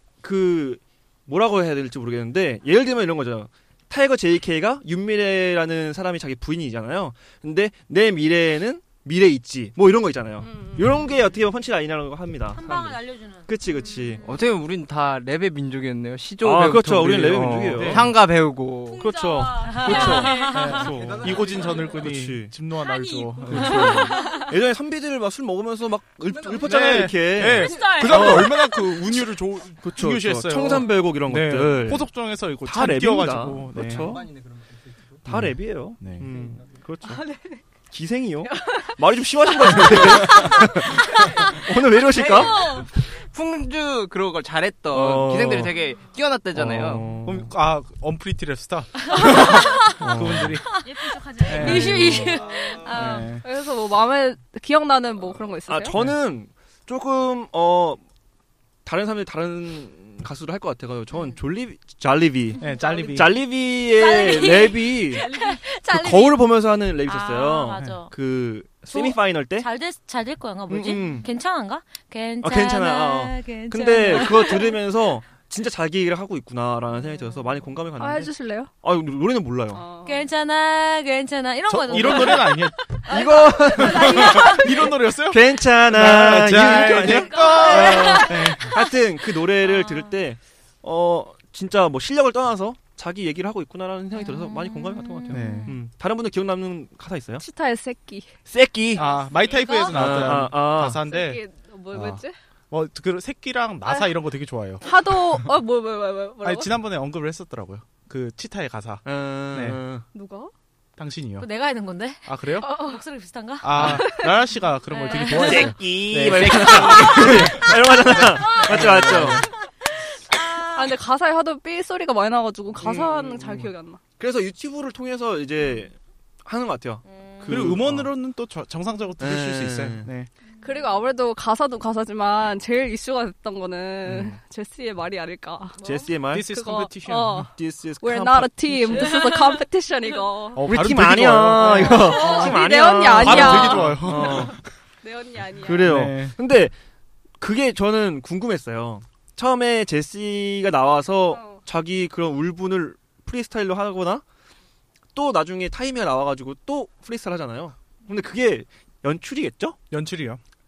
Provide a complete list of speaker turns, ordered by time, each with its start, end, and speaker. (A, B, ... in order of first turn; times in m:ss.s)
0:00.2-0:14.2 A
0:10.4-0:11.0 B
0:12.6-0:14.3 C
0:14.2-0:19.1 D
0:16.4-0:18.2 A
0:17.7-0:18.1 E
0:19.0-0:22.5 A
0:19.3-0:20.4 F
0:19.4-0:20.8 C
0:19.9-0:24.3 E
0:21.0-0:21.4 D
0:23.5-0:28.9 A
0:23.5-0:23.8 C
0:26.3-0:26.9 D
0:26.6-0:34.2 E
0:27.7-0:28.3 F
0:29.8-0:34.3 A
0:34.0-0:34.8 D
0:35.2-0:37.2 A
0:35.3-0:36.3 E
0:37.1-0:37.6 B
0:37.9-0:42.8 A
0:42.3-0:42.6 B
0:43.2-0:47.1 D
0:44.9-0:45.7 A
0:46.6-0:47.5 A
0:47.2-0:50.7 E
0:49.2-0:49.8 C
0:49.2-0:50.6 A
0:51.0-0:52.2 F
0:51.4-0:52.3 E
0:51.4-0:53.3 C
0:51.5-0:51.8 A
0:52.9-0:53.4 E
0:53.4-0:56.0 B
0:55.7-0:58.0 A
0:58.8-1:05.3 A
1:01.1-1:01.4 C
1:02.6-1:03.1 C
1:02.6-1:03.5 E
1:03.9-1:06.4 C
1:05.9-1:09.7 A
1:07.1-1:08.1 C
1:07.8-1:08.0 E
1:08.9-1:14.8 C
1:10.7-1:11.3 A
1:12.4-1:19.8 A
1:18.0-1:18.7 B
1:19.7-1:20.3 B
1:20.0-1:22.6 C
1:21.7-1:23.0 E
1:21.9-1:22.2 A
1:23.1-1:24.4 B
1:23.1-1:24.6 A
1:23.7-1:28.8 E
1:23.8-1:24.6 C
1:25.3-1:37.4 A
1:26.7-1:28.9 C
1:29.6-1:30.1 C
1:34.1-1:35.7 C
1:35.3-1:35.8 E
1:37.4-1:38.3 B
1:38.5-1:39.0 A
1:38.9-1:45.6 E
1:39.4-1:40.0 C
1:39.5-1:40.0 B
1:39.9-1:41.0 A
1:41.0-1:42.4 B
1:44.8-1:46.7 B
1:46.4-1:49.8 E
1:49.0-1:50.0 A
1:50.1-1:50.5 B
1:51.0-1:51.5 E
1:51.4-1:54.2 C
1:52.2-1:52.8 E
1:53.6-1:59.5 E
1:53.8-1:54.0 A
1:53.8-1:54.3 B
1:54.9-1:55.7 C
1:55.2-1:59.5 A
2:00.3-2:00.9 C
2:00.7-2:04.0 B
2:02.8-2:08.1 A
2:07.1-2:07.5 C
2:07.5-2:10.3 E
2:09.2-2:10.1 A
2:10.6-2:15.8 B
2:14.1-2:14.4 A
2:15.8-2:16.5 A
2:16.3-2:17.5 E
2:16.4-2:20.6 B
2:17.5-2:19.2 A
2:20.5-2:22.6 E
2:20.6-2:24.6 A
2:21.6-2:25.9 B
2:23.2-2:24.6 E
2:25.6-2:26.7 A
2:25.8-2:26.4 E
2:27.4-2:34.2 A
2:31.3-2:31.6 B
2:35.2-2:39.8 A
2:39.9-2:40.4 E